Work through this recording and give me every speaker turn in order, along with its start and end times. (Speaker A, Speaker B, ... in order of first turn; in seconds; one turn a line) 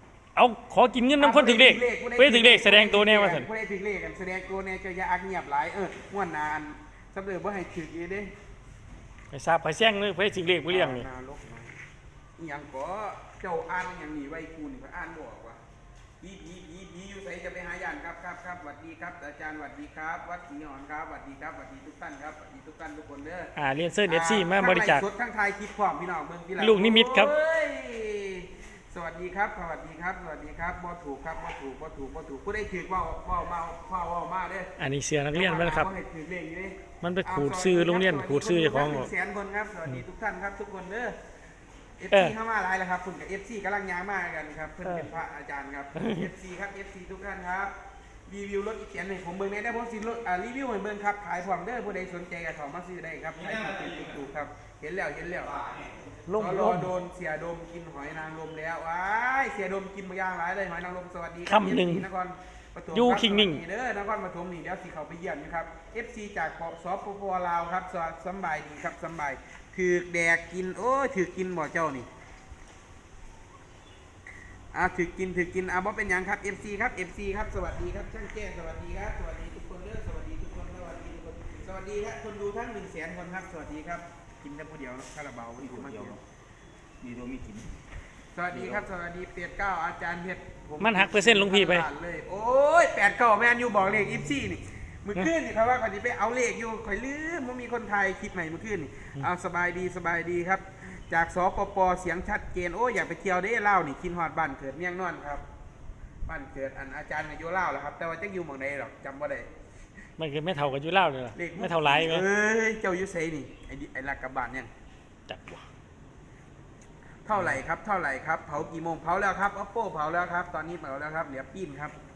Speaker A: 0.3-3.5
Speaker B: 1.2-8.3
Speaker A: 9.3-11.1
Speaker B: 10.7-11.8
Speaker B: 12.4-15.6
Speaker B: 16.2-23.5
Speaker A: 23.6-25.0
Speaker B: 24.1-34.7
Speaker A: 26.6-27.3
Speaker A: 34.8-35.9
Speaker B: 35.3-41.1
Speaker A: 37.0-39.1
Speaker B: 42.0-47.7
Speaker A: 46.0-46.3
Speaker B: 48.3-55.5
Speaker C: 53.4-54.2
Speaker C: 55.5-56.0
Speaker A: 56.3-56.9
Speaker B: 56.3-72.1
Speaker A: 61.5-62.1
Speaker A: 62.9-63.6
Speaker B: 74.7-86.2
Speaker C: 85.6-86.2
Speaker C: 87.0-87.7
Speaker B: 88.3-105.4
Speaker C: 88.5-88.9
Speaker A: 90.8-91.9
Speaker B: 106.2-109.5
Speaker A: 110.2-112.2
Speaker B: 111.3-114.7
Speaker A: 115.3-115.7
Speaker B: 117.2-122.0